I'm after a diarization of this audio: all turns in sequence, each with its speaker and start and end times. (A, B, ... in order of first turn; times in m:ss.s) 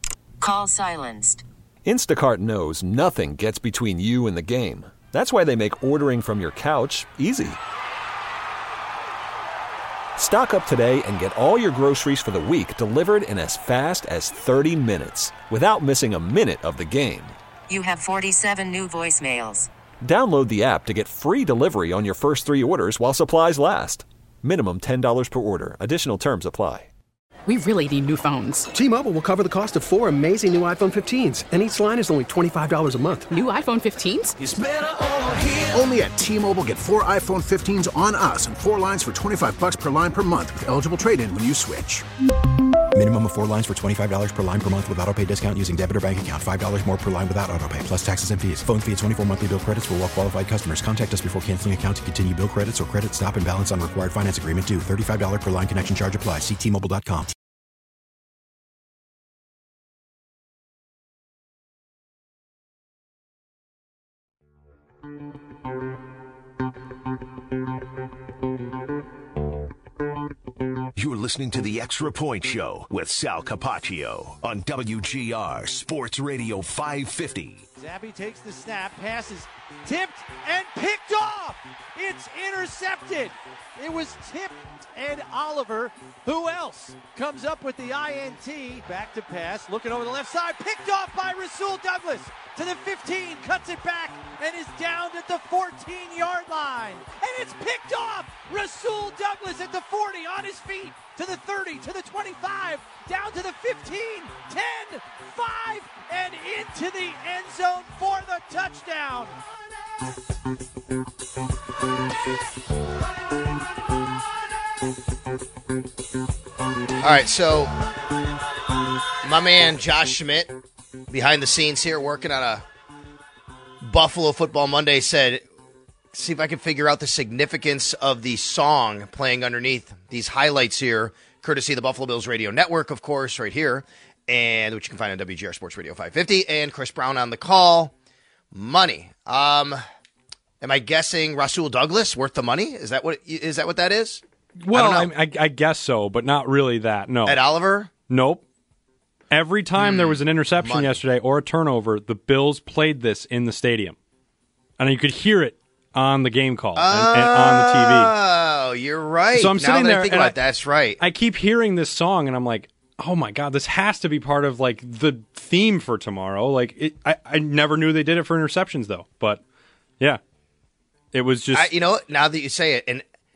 0:00.4-0:01.4 A
0:01.8-0:07.6 B
0:10.2-0:17.4 B
0:17.7-0:19.7 A
0:20.0-0:26.9 B
0:27.5-0:28.7 C
0:28.7-0:33.2 D
0:33.3-0:34.4 C
0:34.9-0:35.7 E
0:35.7-0:42.0 F
0:42.9-0:57.3 G
1:11.0-1:17.6 E
1:17.8-1:49.4 H
1:57.0-1:57.7 I
1:59.2-2:00.5 I
2:01.1-2:02.6 I
2:03.8-2:05.4 I
2:06.1-2:17.9 I
2:18.5-2:19.8 I
2:20.6-2:25.1 I
2:24.6-2:27.3 J
2:27.2-2:27.9 I
2:28.1-2:28.4 J
2:29.3-2:34.0 J
2:29.7-2:31.0 I
2:34.8-2:38.1 J
2:36.7-2:41.0 I
2:39.3-2:40.3 J
2:41.0-2:49.4 J
2:51.1-2:51.7 J
2:51.5-2:53.0 I